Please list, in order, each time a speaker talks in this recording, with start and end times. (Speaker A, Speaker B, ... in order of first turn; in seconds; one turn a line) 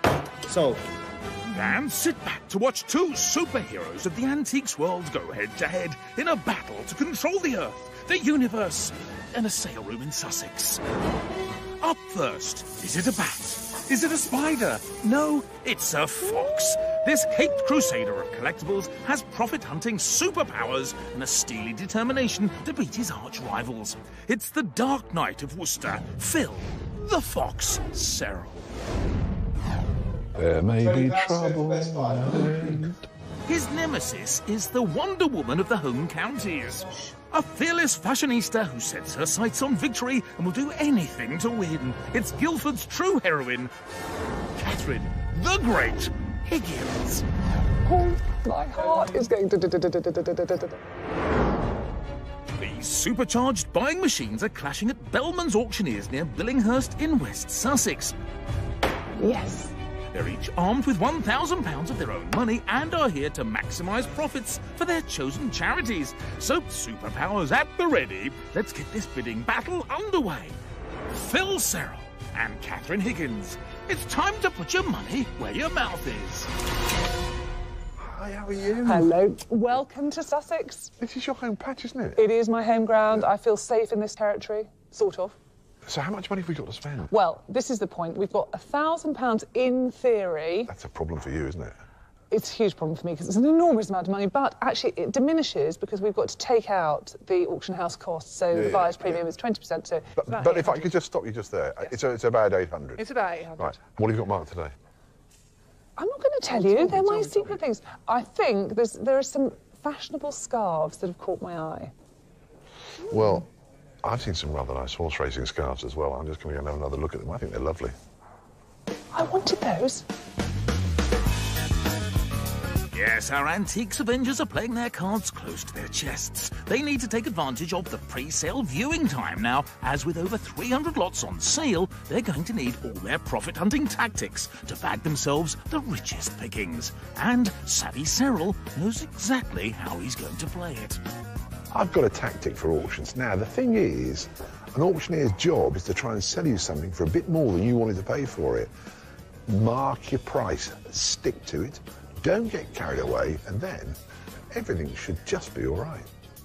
Speaker A: 0.4-0.8
Speaker B: 1.5-10.8
Speaker B: 11.8-28.6
Speaker C: 30.3-33.1
Speaker A: 30.8-32.9
Speaker B: 33.5-43.7
Speaker B: 44.5-47.2
Speaker D: 47.8-50.8
Speaker B: 52.5-58.1
Speaker D: 59.2-59.7
Speaker B: 60.1-70.5
Speaker B: 71.1-76.5
Speaker C: 78.0-79.1
Speaker D: 78.8-80.9
Speaker C: 81.0-82.2
Speaker D: 82.2-85.3
Speaker C: 85.8-87.1
Speaker D: 87.1-90.7
Speaker C: 90.7-91.7
Speaker D: 92.3-100.9
Speaker C: 98.5-99.2
Speaker C: 100.2-103.0
Speaker D: 103.0-103.8
Speaker C: 103.6-104.7
Speaker D: 106.0-111.9
Speaker C: 106.6-107.6
Speaker C: 113.1-113.5
Speaker C: 114.0-117.9
Speaker D: 119.1-120.0
Speaker B: 122.9-141.0
Speaker C: 141.7-148.7
Speaker C: 149.5-153.9
Speaker C: 154.5-156.1